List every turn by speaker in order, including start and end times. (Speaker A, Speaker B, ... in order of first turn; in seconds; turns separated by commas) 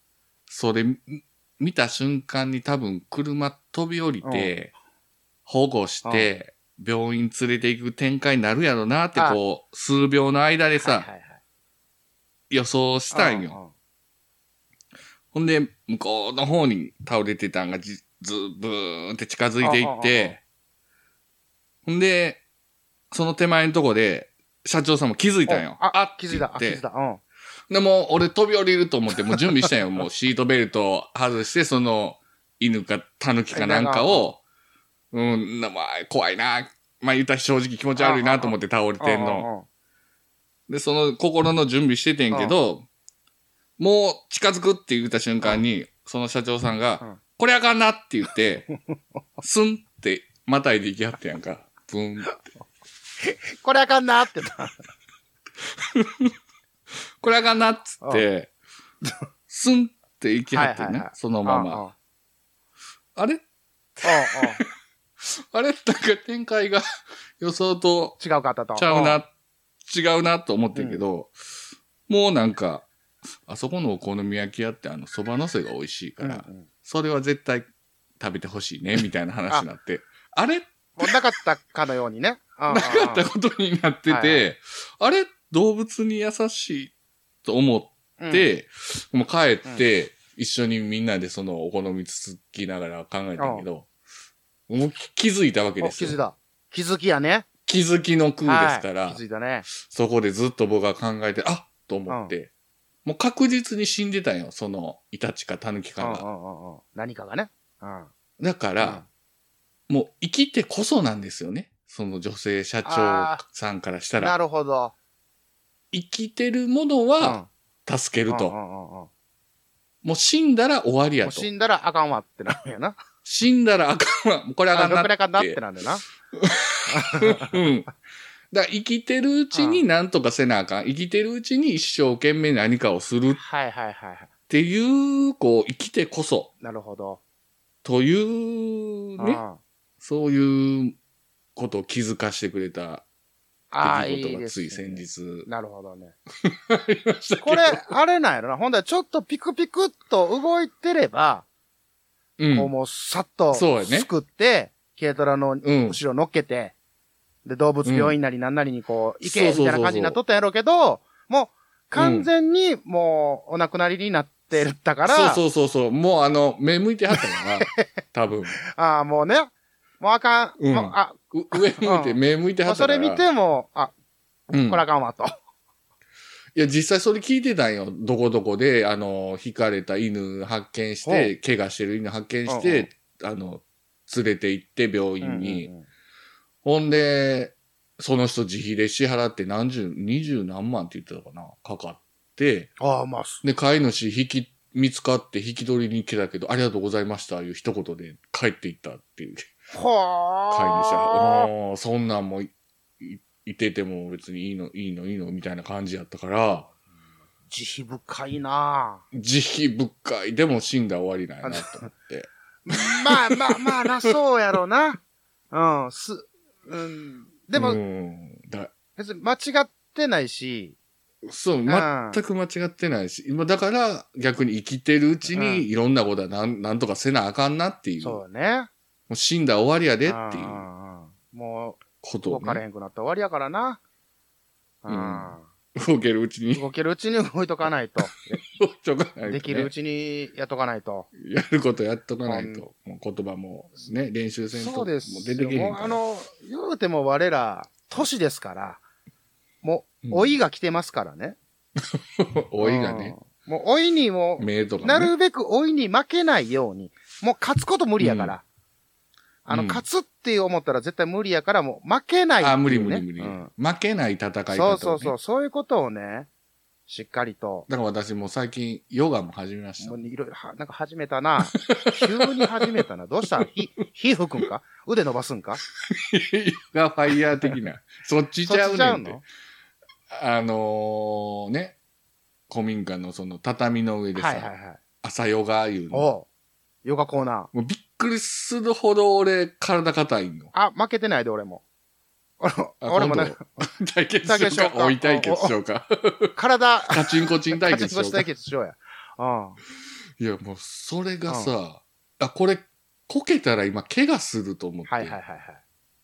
Speaker A: 0.5-4.7, Speaker B: 4.2-4.5, Speaker A: 5.5-11.1, Speaker B: 6.0-6.3, Speaker B: 10.8-11.4, Speaker A: 12.5-13.6, Speaker B: 13.1-13.7, Speaker A: 15.3-20.4, Speaker B: 19.6-20.4, Speaker A: 21.8-22.4, Speaker A: 23.1-26.8, Speaker B: 25.5-27.2, Speaker A: 27.7-34.4, Speaker B: 33.5-34.2, Speaker A: 35.1-39.5, Speaker B: 38.0-39.6, Speaker A: 40.7-42.9, Speaker A: 43.8-48.7, Speaker B: 48.7-49.0, Speaker A: 49.4-52.4, Speaker B: 53.2-54.8, Speaker A: 55.6-56.3, Speaker A: 56.9-58.5, Speaker A: 59.5-61.8, Speaker B: 60.5-61.9, Speaker A: 63.1-63.4, Speaker B: 64.0-64.6, Speaker A: 64.0-64.7, Speaker A: 65.2-66.8, Speaker A: 67.4-68.2, Speaker B: 68.2-69.2, Speaker A: 68.8-69.3, Speaker A: 69.8-71.3, Speaker B: 70.7-71.0, Speaker A: 72.1-72.9, Speaker A: 73.5-77.7, Speaker B: 76.2-76.7, Speaker A: 78.2-81.1, Speaker B: 81.0-83.2, Speaker A: 82.7-86.9, Speaker B: 84.1-84.5, Speaker A: 87.4-93.9, Speaker B: 88.2-88.5, Speaker B: 93.4-93.6, Speaker A: 94.7-96.2, Speaker B: 95.8-97.5, Speaker A: 97.7-102.5, Speaker B: 98.4-99.7, Speaker A: 103.0-106.2, Speaker B: 106.0-108.1, Speaker A: 108.4-109.0, Speaker B: 108.8-109.1, Speaker A: 109.9-114.3, Speaker B: 112.8-113.4, Speaker B: 114.2-114.9, Speaker A: 115.9-118.5, Speaker B: 117.2-117.5, Speaker B: 118.3-119.1, Speaker A: 120.0-121.5, Speaker B: 121.2-123.0, Speaker A: 123.2-125.6, Speaker B: 124.7-126.0, Speaker A: 126.3-127.9, Speaker B: 126.9-127.6, Speaker A: 128.5-133.4, Speaker B: 129.5-129.8, Speaker B: 133.3-134.3, Speaker A: 134.5-136.5, Speaker B: 136.6-137.2, Speaker A: 137.8-139.4, Speaker B: 139.2-139.6, Speaker A: 140.0-141.0, Speaker A: 141.6-143.0, Speaker B: 143.7-146.1, Speaker A: 143.8-145.5, Speaker A: 146.4-147.8, Speaker B: 147.4-151.4, Speaker A: 152.4-152.7, Speaker B: 152.5-156.7, Speaker A: 153.5-154.1, Speaker A: 155.6-156.0, Speaker B: 157.4-165.4, Speaker A: 157.8-158.2, Speaker A: 159.2-160.2, Speaker A: 161.9-162.3, Speaker A: 165.0-168.6, Speaker B: 167.2-167.8, Speaker B: 168.7-173.9, Speaker A: 170.6-173.2, Speaker A: 174.5-174.8, Speaker B: 174.5-175.3, Speaker A: 176.5-185.7, Speaker B: 181.0-181.3, Speaker B: 182.5-182.9, Speaker B: 185.2-185.9, Speaker A: 186.6-192.7, Speaker B: 192.8-193.4, Speaker A: 193.4-199.5, Speaker B: 199.7-201.5, Speaker A: 200.5-206.7, Speaker B: 207.5-209.0, Speaker A: 209.1-213.9, Speaker B: 211.4-211.9, Speaker B: 212.7-215.0, Speaker B: 215.5-217.8, Speaker A: 217.5-218.7, Speaker B: 219.0-220.8, Speaker A: 221.2-228.2, Speaker B: 221.7-222.2, Speaker B: 225.3-225.7, Speaker B: 228.0-228.7, Speaker A: 229.1-230.6, Speaker B: 230.1-233.8, Speaker A: 232.0-232.6, Speaker B: 234.8-235.4, Speaker A: 234.9-236.6, Speaker B: 236.5-238.4, Speaker A: 238.4-239.7, Speaker B: 239.3-241.1, Speaker A: 241.2-246.0, Speaker B: 242.3-242.6, Speaker B: 244.5-248.8, Speaker B: 249.6-251.4, Speaker A: 250.0-250.3, Speaker A: 251.8-253.1, Speaker B: 252.6-258.4, Speaker A: 254.4-255.1, Speaker A: 258.0-258.3, Speaker B: 259.4-263.5, Speaker A: 259.5-259.8, Speaker A: 262.4-265.1, Speaker B: 264.5-266.3, Speaker B: 266.9-267.7, Speaker A: 267.7-270.0, Speaker B: 269.8-275.6, Speaker A: 271.6-272.7, Speaker A: 275.9-279.2, Speaker B: 278.4-279.2, Speaker A: 280.1-281.8, Speaker A: 282.5-284.5, Speaker B: 284.1-284.8, Speaker A: 285.0-286.1, Speaker B: 285.9-286.2, Speaker B: 286.8-287.5, Speaker A: 287.5-290.5, Speaker B: 290.5-291.6, Speaker B: 292.4-293.6, Speaker A: 292.8-296.3, Speaker B: 294.2-295.5, Speaker B: 296.4-299.6, Speaker A: 296.9-298.3, Speaker A: 300.2-305.2, Speaker B: 304.9-305.6